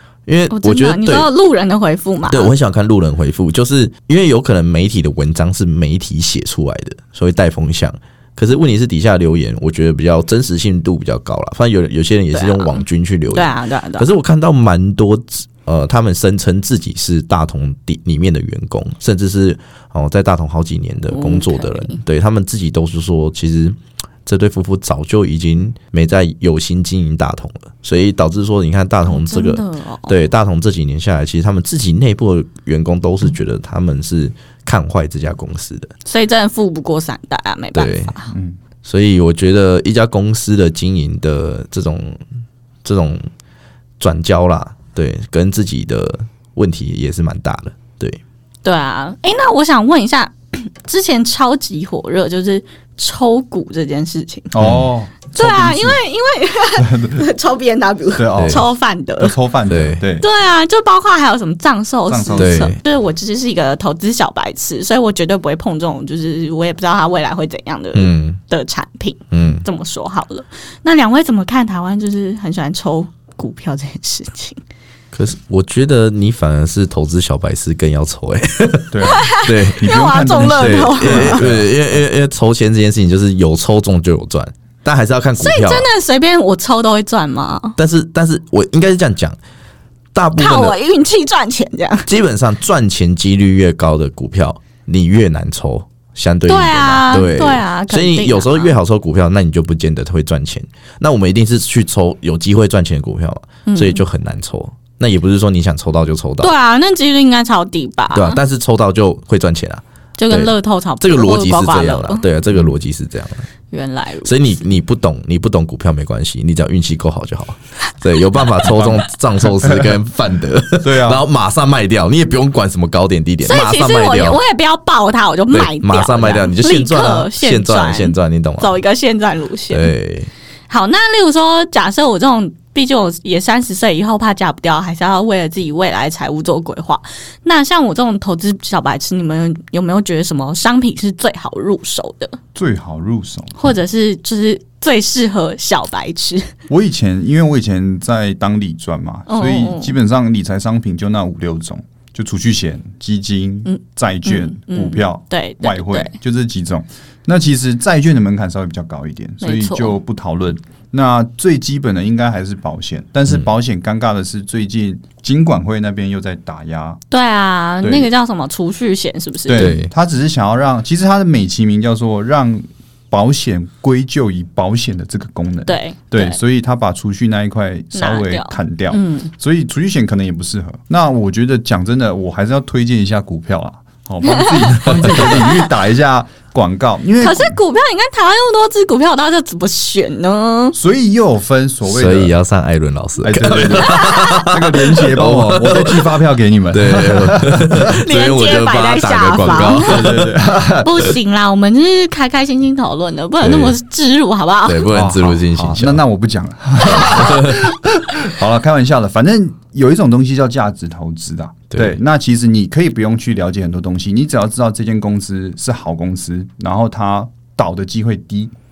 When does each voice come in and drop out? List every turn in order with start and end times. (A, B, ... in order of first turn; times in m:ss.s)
0:00.3-0:01.3 A
0:00.5-0:02.5 B
0:02.3-0:35.9 A
0:12.3-0:14.1 B
0:21.1-0:22.0 B
0:29.0-0:30.2 B
0:36.0-0:38.3 B
0:37.8-0:38.2 A
0:38.3-0:38.6 C
0:38.8-0:42.2 A
0:42.8-0:43.2 A
0:44.0-0:48.2 A
0:48.6-0:54.5 B
0:54.5-0:56.0 C
0:54.6-0:54.9 A
0:55.3-0:59.3 B
0:56.8-0:57.3 C
0:58.1-1:00.3 C
0:58.4-0:58.6 A
0:59.7-1:00.0 A
1:00.2-1:14.6 B
1:02.1-1:02.8 C
1:02.4-1:02.8 A
1:07.9-1:08.4 A
1:09.3-1:09.6 A
1:15.1-1:25.9 A
1:18.9-1:19.3 C
1:19.0-1:21.4 B
1:19.8-1:22.0 C
1:25.4-1:27.8 B
1:27.8-1:29.4 A
1:30.1-1:30.8 A
1:30.4-1:32.1 B
1:32.1-1:46.5 A
1:36.5-1:38.8 B
1:43.7-1:44.1 B
1:46.4-1:48.4 B
1:48.1-1:53.5 A
1:50.2-1:52.3 B
1:53.7-1:54.6 B
1:54.2-2:04.4 A
1:58.7-2:00.0 C
2:00.8-2:01.2 C
2:03.4-2:09.9 B
2:05.5-2:08.8 A
2:09.7-2:10.3 A
2:10.7-2:22.4 B
2:22.5-2:23.7 C
2:23.6-2:26.5 B
2:26.7-2:47.0 C
2:29.3-2:30.0 B
2:33.7-2:36.2 B
2:39.4-2:40.0 B
2:47.1-2:49.8 B
2:47.8-2:48.1 C
2:49.5-3:07.6 C
2:49.5-2:49.9 A
2:55.7-2:56.4 B
2:57.9-2:59.3 B
3:04.3-3:05.6 B
3:07.2-3:10.8 B
3:10.7-3:12.4 C
3:11.8-3:16.2 A
3:13.2-3:17.8 C
3:13.7-3:14.5 B
3:16.7-3:20.3 A
3:17.8-3:20.2 B
3:19.5-3:21.2 C
3:20.8-3:24.9 B
3:23.4-3:23.8 A
3:24.6-3:26.0 A
3:24.9-3:38.5 C
3:26.9-3:27.6 A
3:31.7-3:32.0 A